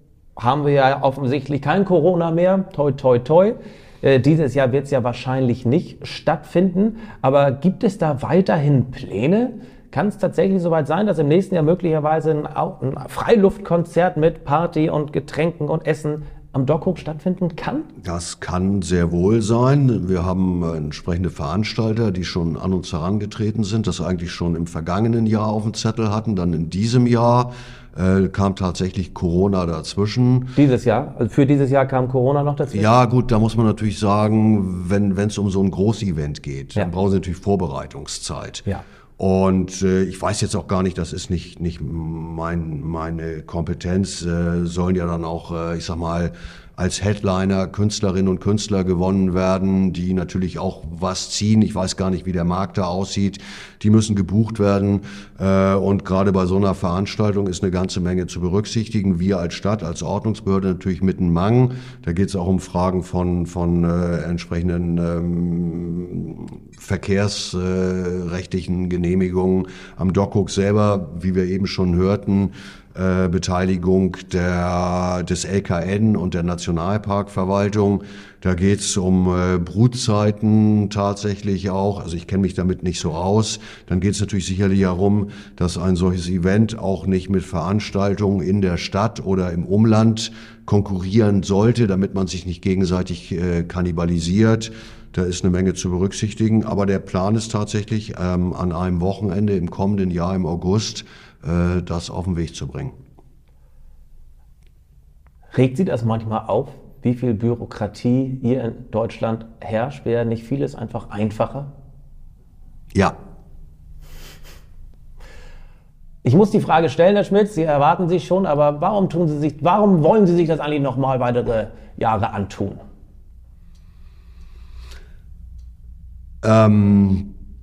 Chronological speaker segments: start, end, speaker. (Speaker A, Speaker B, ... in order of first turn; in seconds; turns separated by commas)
Speaker A: 0.4-17.9, Speaker B: 18.0-30.6, Speaker A: 30.6-32.9, Speaker B: 32.7-38.7, Speaker B: 39.2-103.0, Speaker A: 105.5-111.7, Speaker A: 116.2-122.8, Speaker B: 126.4-127.3